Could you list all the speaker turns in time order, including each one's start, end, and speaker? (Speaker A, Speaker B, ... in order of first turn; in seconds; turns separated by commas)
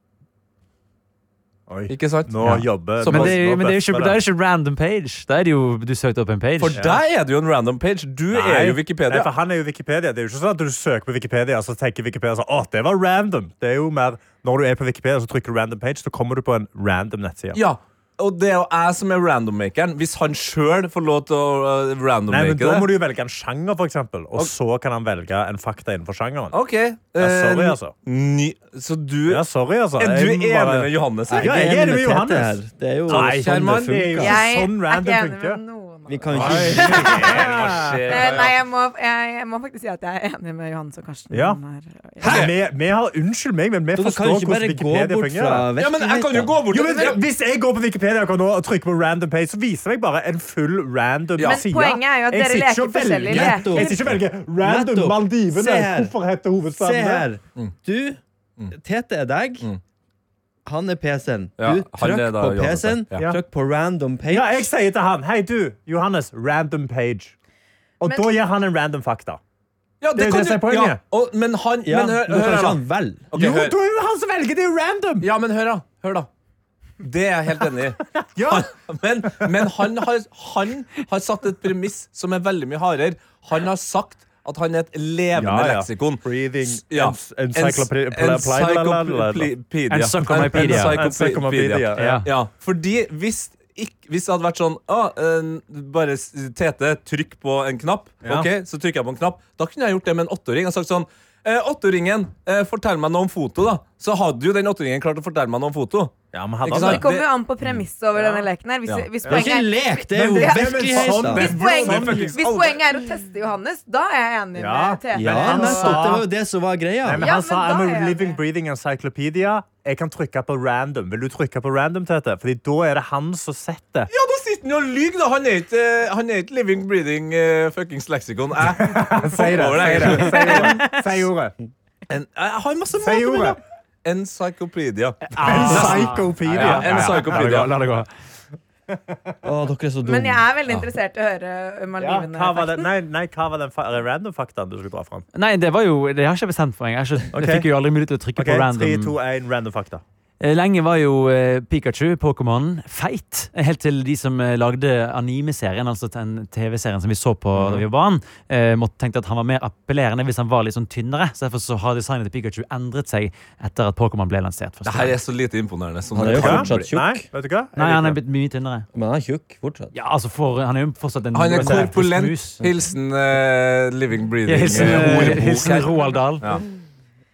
Speaker A: 1.7-4.2, Speaker B: 1.9-3.4, Speaker C: 2.4-7.0, Speaker B: 6.6-9.3, Speaker A: 8.3-17.6, Speaker B: 17.5-22.9, Speaker A: 22.3-26.6, Speaker B: 26.5-29.5, Speaker A: 27.2-27.9, Speaker A: 29.3-35.6, Speaker B: 30.0-31.6, Speaker D: 31.3-34.5, Speaker B: 33.1-34.2, Speaker E: 34.2-42.5, Speaker D: 36.1-37.4, Speaker A: 36.3-38.4, Speaker B: 36.4-38.6, Speaker A: 41.3-41.6, Speaker A: 42.2-45.7, Speaker B: 42.2-42.5, Speaker D: 43.9-46.6, Speaker B: 45.8-47.2, Speaker A: 46.7-57.3, Speaker E: 51.4-54.1, Speaker D: 53.3-56.1, Speaker D: 56.8-58.2, Speaker D: 58.7-59.7, Speaker D: 60.6-64.7, Speaker B: 61.6-63.3, Speaker A: 64.3-67.3, Speaker A: 68.0-69.4, Speaker E: 68.0-68.3, Speaker B: 70.0-73.8, Speaker A: 70.2-71.0, Speaker D: 71.8-73.2, Speaker A: 73.3-75.3, Speaker B: 75.2-76.3, Speaker B: 77.0-106.1, Speaker A: 78.2-78.7, Speaker A: 85.3-89.5, Speaker C: 89.9-91.0, Speaker A: 90.2-92.3, Speaker C: 92.0-92.3, Speaker A: 106.3-107.1, Speaker B: 106.7-107.3, Speaker E: 106.7-116.1, Speaker A: 109.2-109.5, Speaker D: 109.2-111.5, Speaker A: 110.1-112.5, Speaker B: 111.0-112.8, Speaker A: 114.6-116.2, Speaker D: 115.1-117.3, Speaker A: 117.0-124.1, Speaker E: 117.2-118.4, Speaker B: 124.1-130.7, Speaker A: 128.6-131.5, Speaker E: 130.1-131.0, Speaker B: 132.1-137.7, Speaker A: 133.0-133.6, Speaker C: 135.3-138.1, Speaker A: 135.4-138.1, Speaker A: 138.9-139.3, Speaker D: 139.4-140.5, Speaker E: 140.0-142.9, Speaker A: 142.0-145.2, Speaker C: 145.3-149.2, Speaker A: 147.3-147.7, Speaker A: 148.4-150.0, Speaker C: 150.4-165.2, Speaker B: 164.8-166.8, Speaker D: 166.1-167.3, Speaker A: 166.2-168.2, Speaker C: 167.8-168.9, Speaker D: 168.9-169.9, Speaker C: 169.9-172.6, Speaker B: 171.3-176.6, Speaker A: 171.6-171.9, Speaker C: 174.5-176.5